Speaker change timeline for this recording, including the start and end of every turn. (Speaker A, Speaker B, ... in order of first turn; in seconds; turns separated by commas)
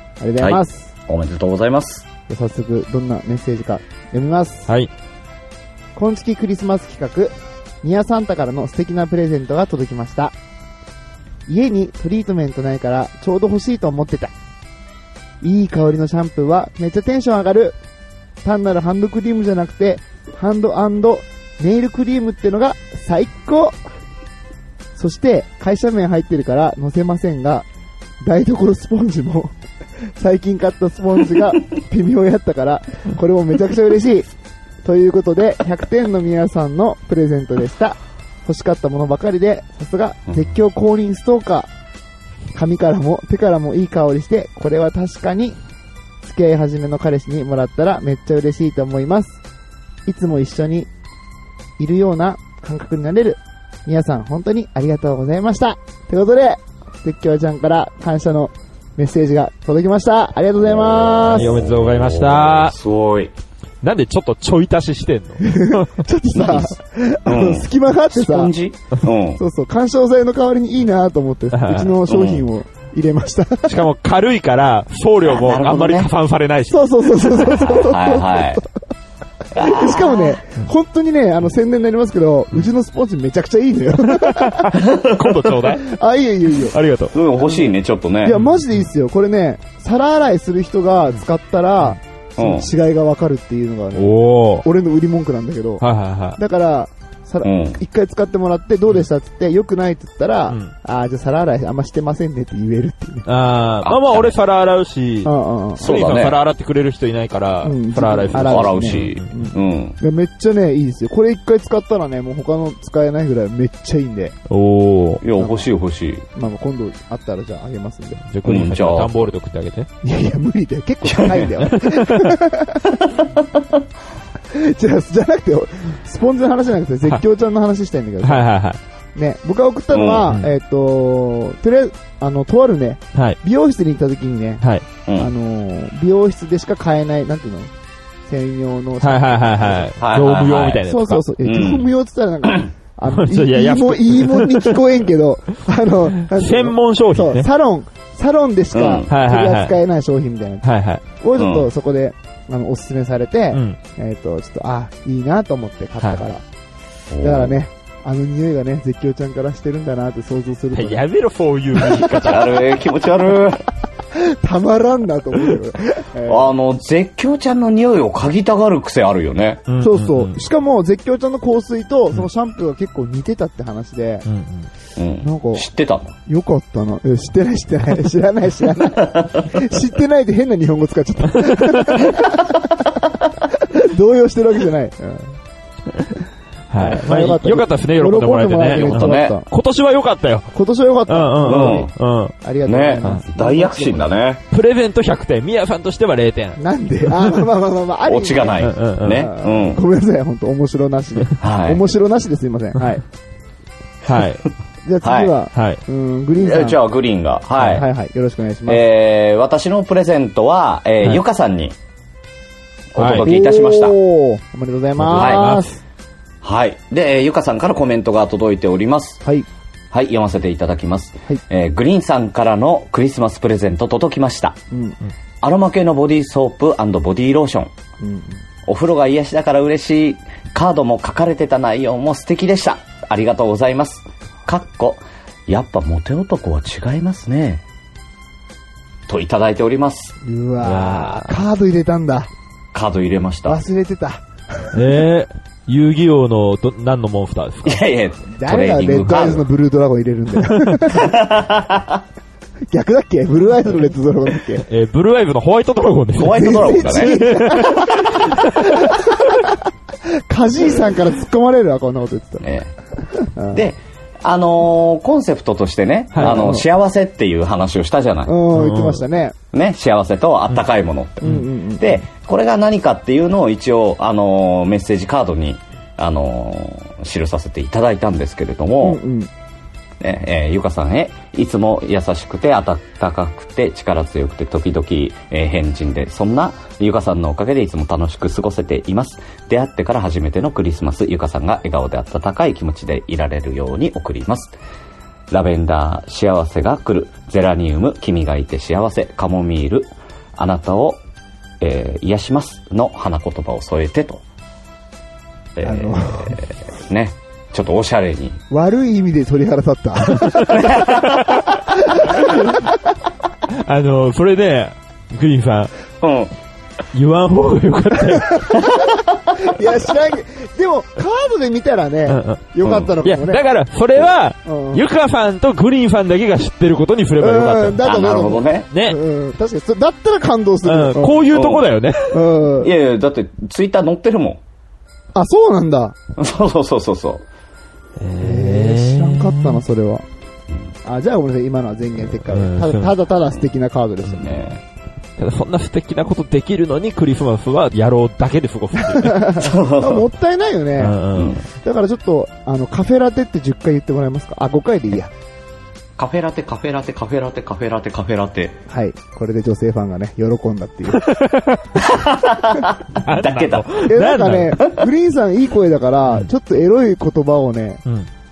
Speaker A: 0.2-0.9, Speaker B: 0.4-2.0, Speaker A: 2.3-4.7, Speaker A: 6.0-10.3, Speaker A: 11.5-14.3, Speaker A: 15.4-17.8, Speaker A: 18.4-23.8, Speaker A: 24.9-27.6, Speaker A: 28.2-29.5, Speaker A: 30.1-34.3, Speaker A: 34.8-41.7, Speaker A: 42.5-45.6, Speaker A: 46.2-49.4, Speaker A: 50.0-50.9, Speaker A: 51.8-61.5, Speaker B: 60.6-63.3, Speaker C: 61.3-62.7, Speaker C: 63.8-65.9, Speaker A: 65.4-68.5, Speaker B: 66.3-69.4, Speaker A: 69.4-73.7, Speaker C: 71.5-71.9, Speaker B: 72.1-72.4, Speaker C: 73.7-76.9, Speaker B: 75.2-76.1, Speaker A: 76.7-78.6, Speaker B: 77.4-78.6, Speaker B: 79.5-80.4, Speaker A: 79.5-84.7, Speaker C: 84.1-85.9, Speaker B: 84.8-85.4, Speaker A: 85.8-86.7, Speaker C: 86.7-87.1, Speaker B: 87.1-88.3, Speaker A: 88.2-95.8, Speaker B: 92.4-92.7, Speaker C: 93.9-94.6, Speaker C: 95.8-96.4, Speaker A: 96.4-103.3, Speaker B: 97.4-97.8, Speaker C: 103.2-109.3, Speaker B: 103.8-104.3, Speaker A: 105.2-105.9, Speaker B: 105.8-106.4, Speaker A: 107.6-114.3, Speaker B: 108.3-110.0, Speaker C: 114.5-115.2, Speaker B: 115.2-116.2, Speaker A: 116.3-118.2, Speaker C: 118.3-119.9, Speaker B: 118.4-119.1, Speaker A: 120.0-122.9, Speaker B: 121.0-121.5, Speaker C: 121.6-122.3, Speaker B: 123.0-123.6, Speaker A: 124.5-128.5, Speaker C: 128.2-128.8, Speaker A: 129.1-134.6, Speaker B: 129.9-130.2, Speaker A: 135.2-137.7, Speaker A: 138.3-139.9, Speaker C: 139.0-141.2, Speaker B: 140.0-140.8, Speaker A: 140.8-150.7, Speaker B: 141.4-141.9, Speaker C: 143.1-144.8, Speaker C: 146.3-147.5, Speaker B: 148.7-149.1, Speaker C: 149.1-149.8, Speaker C: 150.6-151.0, Speaker A: 151.2-156.4, Speaker B: 151.4-151.7, Speaker C: 153.5-153.8, Speaker B: 157.1-157.6, Speaker A: 157.2-161.0, Speaker C: 160.7-162.7, Speaker A: 161.8-162.1, Speaker B: 162.2-163.6, Speaker A: 164.1-166.5, Speaker B: 166.3-169.6, Speaker C: 169.7-170.3, Speaker A: 169.8-174.2, Speaker C: 174.3-174.7, Speaker B: 174.9-176.1, Speaker A: 175.2-175.7, Speaker A: 176.2-182.7, Speaker C: 181.4-181.7, Speaker A: 183.4-185.4, Speaker C: 186.7-190.5, Speaker A: 186.8-189.5, Speaker B: 188.7-189.3, Speaker A: 190.5-191.9, Speaker C: 191.1-192.3, Speaker B: 191.4-191.9, Speaker A: 192.4-194.0, Speaker B: 192.7-194.4, Speaker C: 194.5-196.6, Speaker A: 196.6-203.0, Speaker B: 198.1-199.8, Speaker C: 198.6-199.2, Speaker B: 201.4-201.8, Speaker C: 204.0-204.4, Speaker A: 204.8-206.8, Speaker B: 205.0-205.3, Speaker C: 205.5-205.8, Speaker B: 206.4-207.8, Speaker A: 207.6-208.8, Speaker B: 208.7-211.8, Speaker B: 212.9-213.9, Speaker C: 213.0-213.3, Speaker A: 213.2-215.8, Speaker C: 215.0-215.7, Speaker B: 215.1-215.5, Speaker B: 216.4-219.2, Speaker B: 219.9-224.6, Speaker A: 224.7-225.0, Speaker B: 225.4-227.7, Speaker A: 228.0-228.4, Speaker B: 228.7-237.6, Speaker B: 239.1-240.2, Speaker A: 240.2-242.3, Speaker C: 240.6-241.4, Speaker B: 242.7-243.6, Speaker A: 243.5-244.8, Speaker C: 244.7-247.8, Speaker B: 247.6-249.4, Speaker A: 248.3-251.1, Speaker B: 250.9-252.0, Speaker A: 252.7-254.7, Speaker C: 254.7-258.5, Speaker B: 256.2-257.2, Speaker A: 256.3-259.6, Speaker A: 260.1-262.5, Speaker B: 262.4-262.7, Speaker A: 263.1-263.6, Speaker B: 263.5-268.4, Speaker C: 266.1-266.4, Speaker A: 266.2-266.6, Speaker A: 268.2-269.4, Speaker C: 268.5-269.0, Speaker B: 269.5-279.0, Speaker A: 271.2-272.0, Speaker A: 278.8-279.3, Speaker B: 280.0-294.6, Speaker B: 295.3-301.0, Speaker B: 301.6-304.2, Speaker B: 305.6-308.4, Speaker A: 305.6-306.4, Speaker A: 308.5-310.9, Speaker B: 310.5-311.2, Speaker A: 311.5-312.6, Speaker C: 313.5-315.7, Speaker B: 316.0-316.3, Speaker C: 316.9-318.5, Speaker A: 318.1-318.8, Speaker B: 318.5-319.1, Speaker A: 319.4-323.4, Speaker C: 322.1-322.4, Speaker B: 322.6-322.9, Speaker C: 323.0-327.8, Speaker A: 324.4-324.8, Speaker A: 327.2-331.2, Speaker B: 327.8-328.7, Speaker C: 328.7-329.0, Speaker C: 330.6-332.2, Speaker B: 331.3-331.7, Speaker A: 332.1-332.7, Speaker B: 332.6-334.4, Speaker A: 335.1-335.9, Speaker B: 336.1-337.2, Speaker C: 338.0-339.6, Speaker A: 338.2-340.0, Speaker A: 340.8-344.4, Speaker C: 342.2-342.9, Speaker B: 344.2-344.6, Speaker C: 345.2-349.2, Speaker A: 348.8-351.0, Speaker B: 349.4-350.1, Speaker C: 350.8-351.4, Speaker B: 351.1-351.4, Speaker A: 351.5-355.1, Speaker B: 356.0-358.6, Speaker A: 358.7-361.1, Speaker C: 361.0-361.6, Speaker B: 361.8-363.7, Speaker C: 363.0-364.6, Speaker A: 363.9-367.8